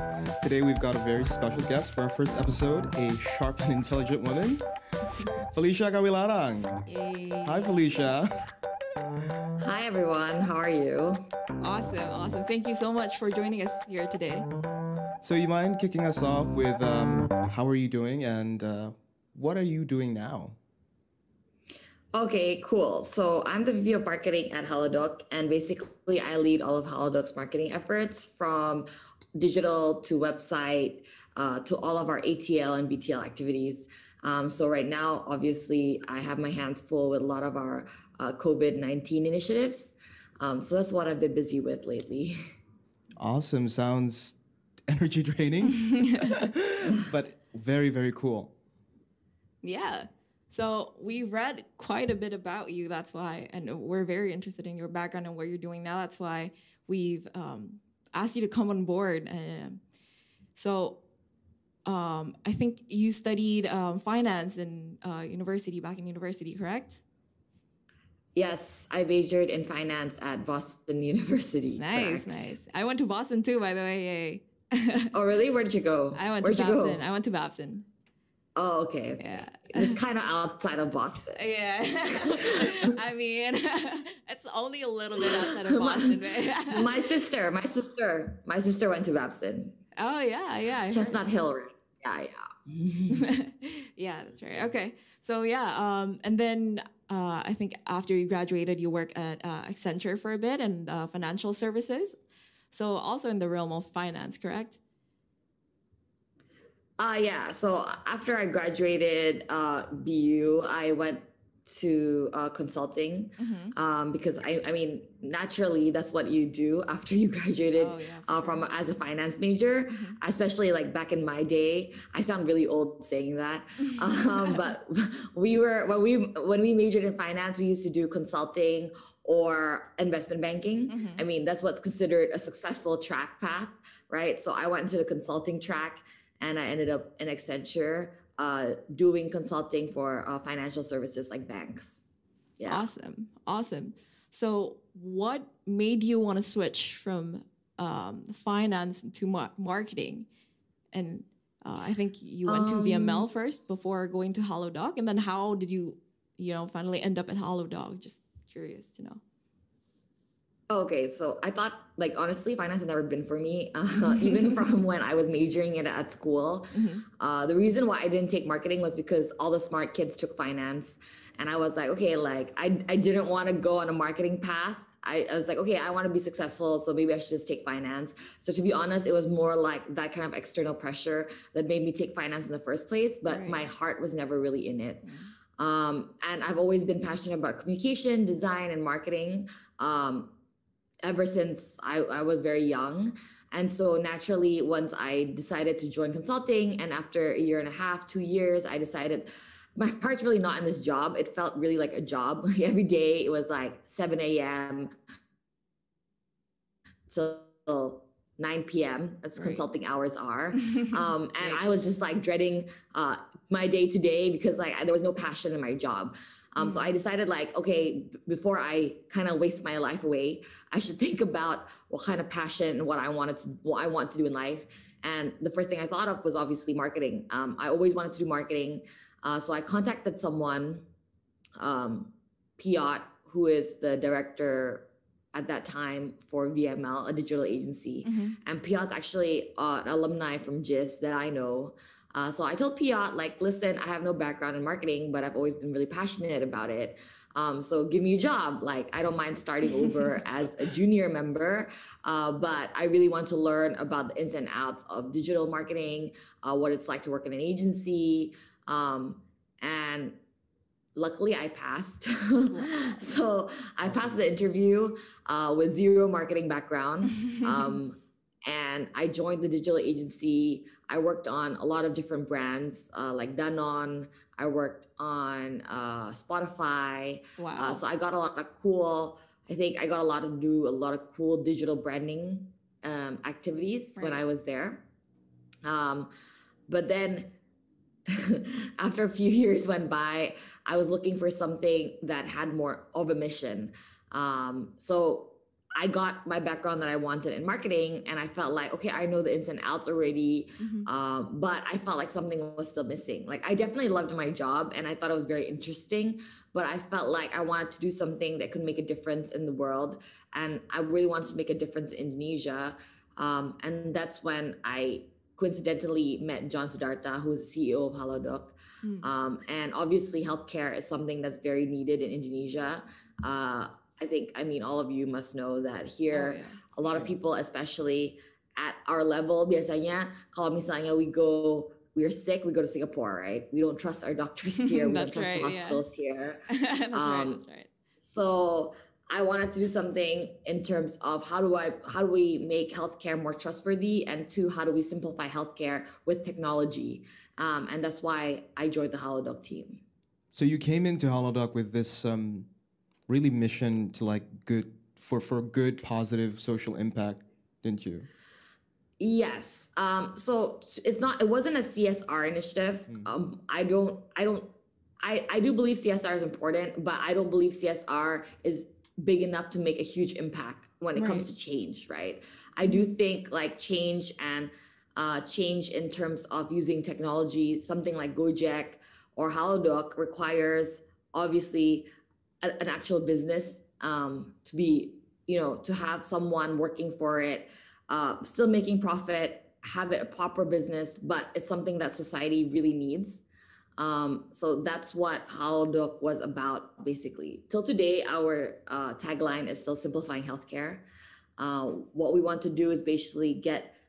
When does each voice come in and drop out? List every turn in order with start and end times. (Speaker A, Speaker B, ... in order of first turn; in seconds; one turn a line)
Speaker A: 0.4-4.6
Speaker A: 5.5-6.8
Speaker B: 6.9-7.8
Speaker A: 7.4-8.5
Speaker C: 9.6-11.2
Speaker B: 11.6-14.5
Speaker A: 15.2-20.6
Speaker C: 22.1-42.4
Speaker A: 43.2-44.4
Speaker A: 44.9-48.5
Speaker B: 46.1-46.4
Speaker B: 49.6-59.8
Speaker B: 60.6-61.0
Speaker B: 61.8-67.0
Speaker C: 68.4-72.5
Speaker B: 71.8-75.1
Speaker C: 75.1-77.0
Speaker B: 76.1-77.9
Speaker C: 78.6-81.4
Speaker B: 79.2-80.0
Speaker B: 81.3-87.0
Speaker C: 82.1-82.9
Speaker C: 85.2-89.8
Speaker B: 90.0-91.2
Speaker C: 90.9-93.3
Speaker B: 93.1-102.2
Speaker B: 102.7-104.8
Speaker C: 107.0-142.0
Speaker B: 113.4-113.7
Speaker B: 117.8-118.6
Speaker B: 123.9-124.7
Speaker B: 130.9-131.2
Speaker C: 142.6-142.8
Speaker B: 142.7-150.2
Speaker B: 150.9-159.2
Speaker C: 152.5-153.2
Speaker C: 160.7-185.0
Speaker B: 164.2-164.6
Speaker B: 166.7-167.0
Speaker B: 183.3-183.7
Speaker B: 185.1-185.3
Speaker C: 185.6-190.3
Speaker C: 191.0-204.9
Speaker C: 207.1-230.8
Speaker B: 209.4-209.6
Speaker B: 210.9-211.6
Speaker B: 216.6-216.8
Speaker C: 231.6-260.1
Speaker B: 238.0-238.4
Speaker C: 260.9-284.8
Speaker B: 262.5-263.0
Speaker A: 263.8-264.1
Speaker B: 277.4-277.8
Speaker C: 285.6-286.1
Speaker C: 286.7-287.3
Speaker C: 288.1-337.4
Speaker B: 300.6-300.9
Speaker B: 326.1-326.6
Speaker B: 334.6-335.8
Speaker B: 336.5-337.7
Speaker C: 338.0-349.8
Speaker A: 350.3-352.5
Speaker A: 353.1-358.1
Speaker C: 359.0-364.5
Speaker C: 365.0-381.9
Speaker B: 370.9-371.2
Speaker C: 382.4-393.2
Speaker C: 393.8-400.8
Speaker C: 401.4-403.7